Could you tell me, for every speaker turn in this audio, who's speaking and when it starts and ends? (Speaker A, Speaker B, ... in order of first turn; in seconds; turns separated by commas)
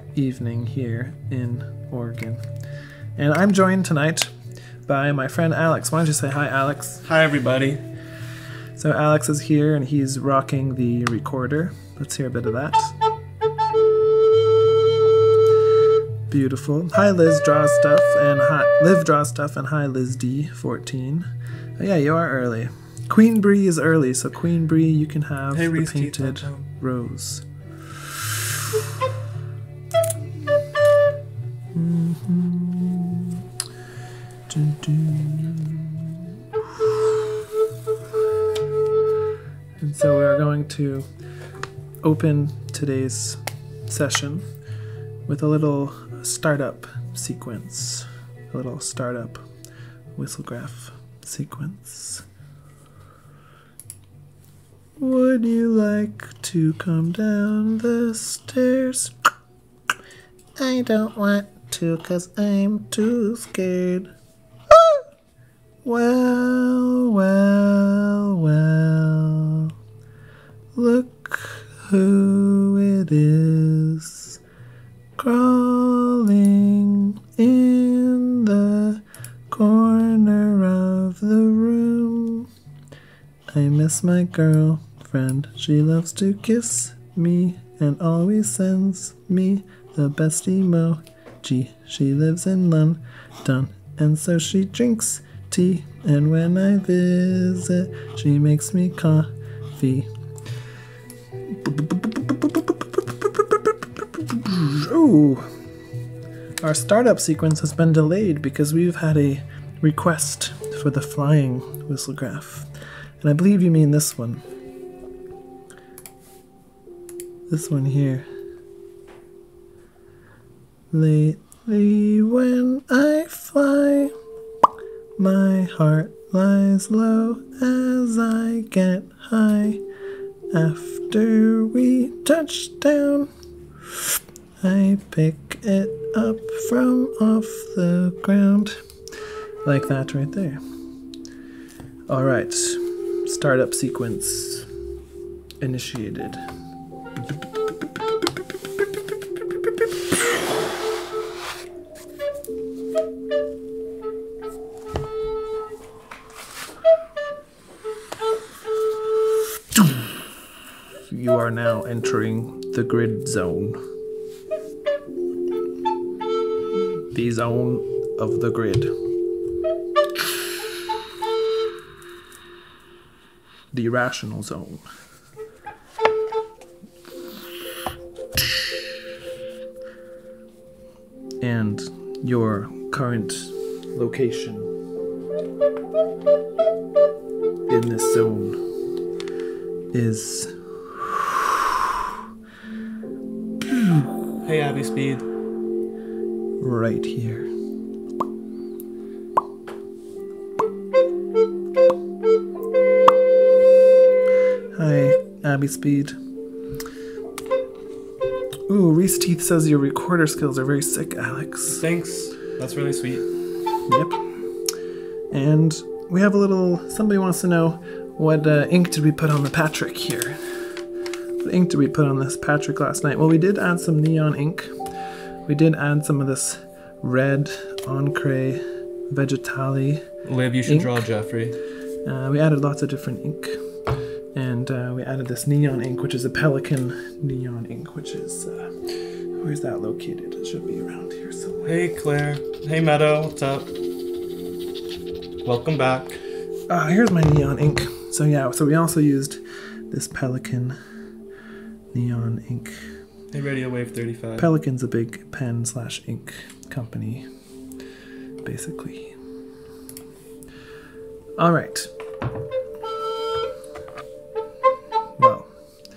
Speaker A: 0.1-2.4, Speaker A: 3.2-4.3, Speaker A: 4.9-7.0, Speaker B: 7.0-7.8, Speaker A: 8.8-12.9, Speaker A: 16.3-27.4, Speaker B: 25.5-26.6, Speaker A: 31.7-33.4, Speaker A: 34.5-36.3, Speaker A: 36.8-37.2, Speaker A: 39.8-41.1, Speaker A: 42.0-44.5, Speaker A: 45.3-49.4, Speaker A: 50.2-52.2, Speaker A: 55.0-59.3, Speaker A: 60.6-64.1, Speaker A: 64.7-65.1, Speaker A: 65.8-69.7, Speaker A: 70.8-74.4, Speaker A: 75.2-82.5, Speaker A: 83.5-100.1, Speaker A: 101.5-105.5, Speaker A: 106.6-112.7, Speaker A: 113.2-114.4, Speaker A: 117.5-118.3, Speaker A: 120.9-124.1, Speaker A: 125.2-129.8, Speaker A: 130.5-133.3, Speaker A: 134.6-138.8, Speaker A: 139.7-140.6, Speaker A: 142.1-144.7, Speaker A: 145.6-146.4, Speaker A: 161.1-163.8, Speaker A: 167.1-168.9, Speaker A: 173.7-174.8, Speaker A: 181.4-184.7, Speaker A: 187.7-188.6, Speaker A: 189.9-191.8, Speaker A: 193.6-194.3, Speaker B: 194.4-195.3, Speaker A: 196.6-197.5, Speaker A: 204.8-206.1, Speaker A: 208.7-211.8, Speaker B: 211.7-213.3, Speaker A: 213.9-214.2, Speaker A: 215.3-220.4, Speaker A: 221.4-224.7, Speaker A: 225.5-230.1, Speaker B: 230.2-231.6, Speaker A: 230.7-231.0, Speaker A: 232.1-233.6, Speaker A: 234.3-241.7, Speaker B: 241.7-243.8, Speaker B: 245.4-246.2, Speaker A: 246.7-250.8, Speaker A: 251.9-252.8, Speaker B: 253.3-254.5, Speaker A: 254.4-257.3, Speaker A: 258.4-259.2, Speaker A: 261.4-261.9, Speaker A: 265.2-265.5